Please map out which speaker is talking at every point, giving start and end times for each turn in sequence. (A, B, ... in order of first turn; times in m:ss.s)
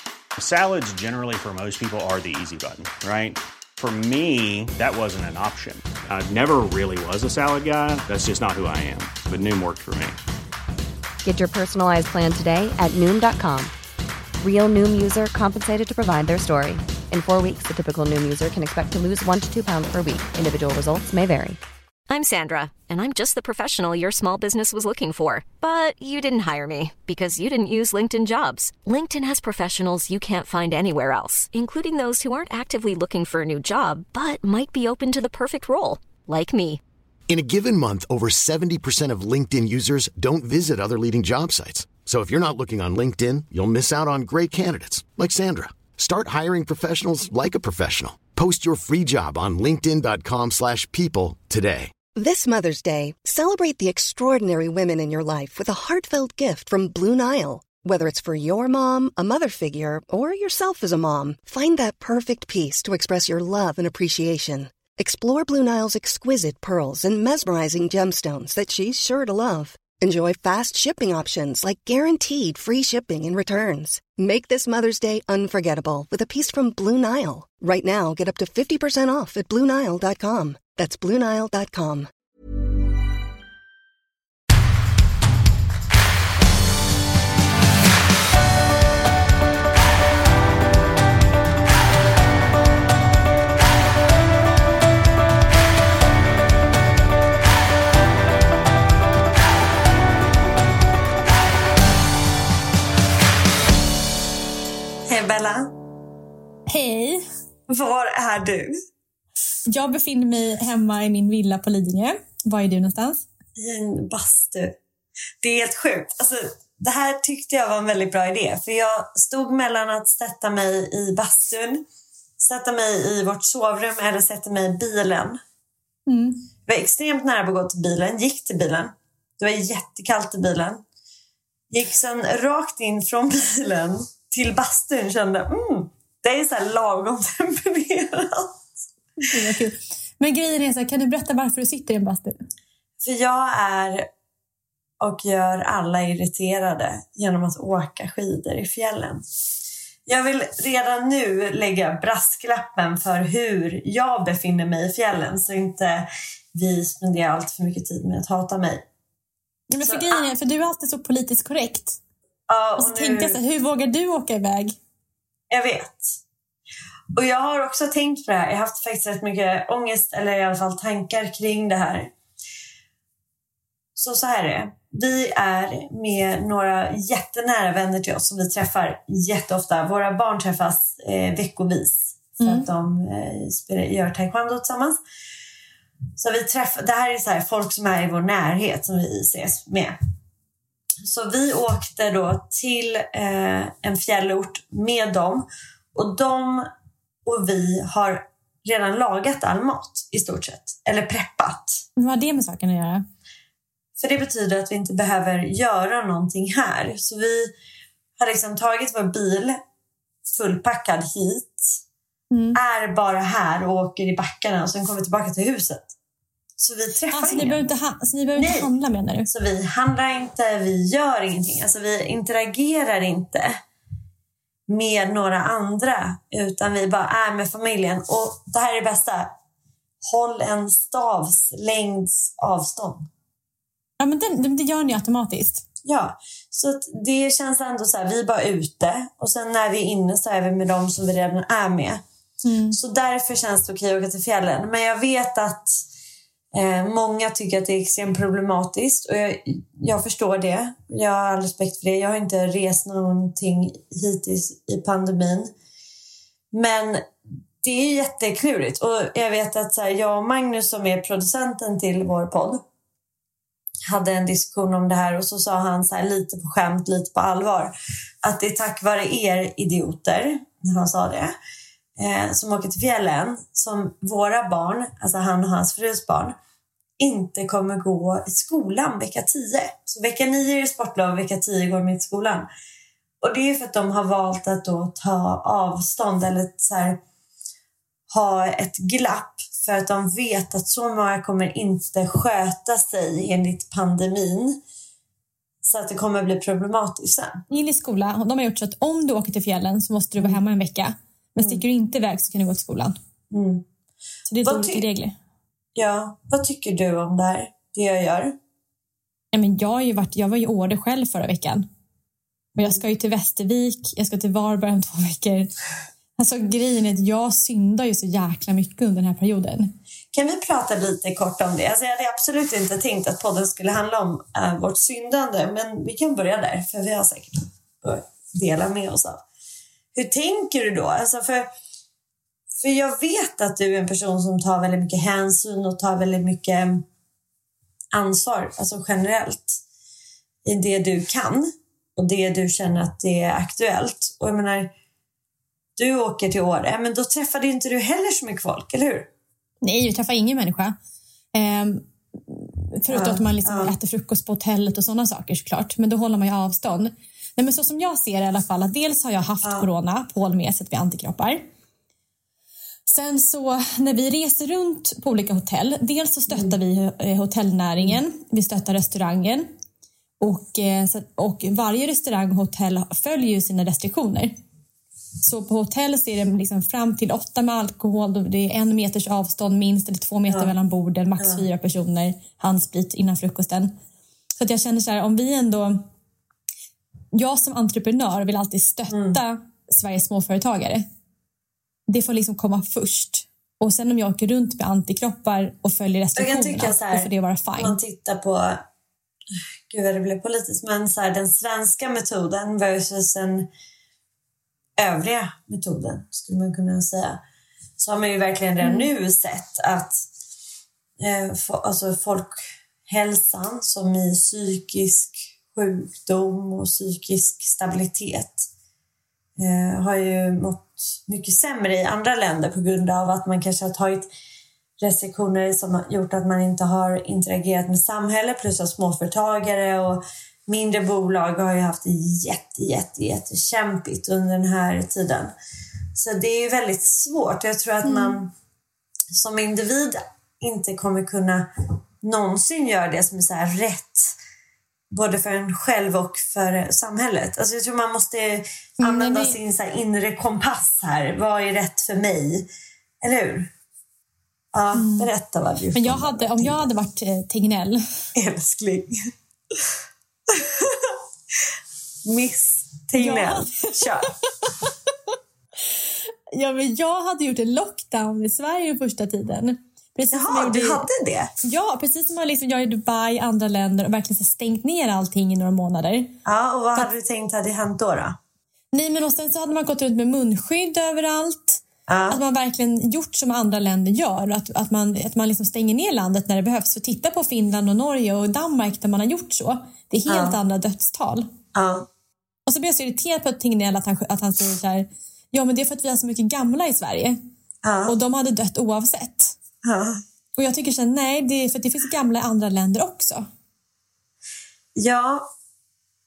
0:00.4-0:10.2 A
0:11.2-0:13.7 B
0:14.4-0:21.6 B
0:22.1-0:36.8 C
0:37.3-0:52.0 D
0:52.1-1:22.1 E
1:45.1-1:45.7 F
1:46.7-1:47.2 G
1:47.7-1:48.7 F
1:49.7-1:53.2 G
1:53.6-1:54.8 F
1:55.4-2:01.8 F
2:02.4-2:05.4 F
2:06.1-2:06.4 G
2:06.7-2:10.8 F
2:11.7-2:18.7 F
2:19.2-2:22.4 G
2:23.0-2:24.1 F
2:25.0-2:29.2 F
2:30.1-2:38.8 F
2:39.7-2:42.0 G
2:39.8-2:40.3 F
2:42.5-2:43.4 F
2:42.8-2:44.8 G
2:45.5-2:46.2 F
2:47.2-2:52.1 F
2:54.0-3:05.0 F
3:02.4-3:02.7 G
3:06.2-3:10.0 F
3:11.0-3:16.7 F
3:17.2-3:21.8 F
3:22.0-3:23.0 G
3:24.0-3:27.5 F
3:28.2-3:29.6 F
3:30.3-3:31.8 F
3:32.3-3:32.6 G
3:32.6-3:35.9 F
3:36.6-3:37.6 F
3:37.1-3:39.3 G
3:38.4-3:38.7 F
3:39.3-3:43.6 F
3:44.7-3:49.3 F
3:50.0-3:53.1 F
3:54.0-3:55.6 G
3:55.8-4:02.0 F
4:02.4-4:02.8 G
4:02.7-4:05.8 F
4:06.5-4:15.5 F
4:16.5-4:17.1 F
4:17.6-4:22.6 F
4:23.9-4:31.3 F
4:32.0-4:36.4 F
4:37.0-4:42.5 F
4:43.2-4:47.0 F
4:48.1-4:54.6 F
4:55.6-4:57.4 F
4:57.5-5:03.0 G
5:03.3-5:03.6 F
5:04.3-5:05.2 G
5:04.4-5:04.9 F
5:05.8-5:08.4 F
5:09.3-5:11.7 G
5:12.6-5:15.5 G
5:16.2-5:19.7 G
5:20.1-5:29.2 F
5:30.0-5:31.5 F
5:32.5-5:36.9 F
5:37.9-5:39.6 F
5:40.4-5:44.7 F
5:45.8-5:49.1 F
5:49.6-5:50.8 G
5:51.3-6:01.4 G
5:52.9-5:53.7 F
5:59.4-5:59.7 F
6:02.9-6:09.5 G
6:10.2-6:14.4 G
6:15.2-6:23.7 G
6:24.4-6:25.9 G
6:27.1-6:30.9 G
6:28.9-6:29.2 F
6:31.9-6:37.8 G
6:36.2-6:38.6 F
6:39.7-6:43.5 F
6:44.8-6:47.2 F
6:47.8-6:50.0 F
6:48.6-6:48.9 G
6:51.0-6:58.5 F
6:59.4-7:04.1 F
7:04.8-7:15.3 F
7:16.0-7:18.3 F
7:17.8-7:18.2 G
7:19.1-7:21.5 F
7:22.0-7:24.2 F
7:24.9-7:32.5 F
7:28.8-7:29.4 G
7:33.0-7:33.5 F
7:34.5-7:36.7 F
7:34.8-7:35.1 G
7:35.8-7:37.8 G
7:38.2-7:39.0 F
7:40.3-7:41.0 F
7:42.0-7:44.1 F
7:43.0-7:44.7 G
7:46.3-7:50.8 G
7:50.1-7:51.3 F
7:51.4-7:56.2 G
7:56.2-7:58.2 F
7:58.7-8:11.3 G
8:01.9-8:02.2 F
8:10.1-8:10.4 F
8:11.5-8:11.9 F
8:12.5-8:17.2 G
8:17.6-8:18.0 F
8:17.9-8:19.4 G
8:19.6-8:20.0 F
8:20.4-8:23.3 G
8:24.8-8:25.3 F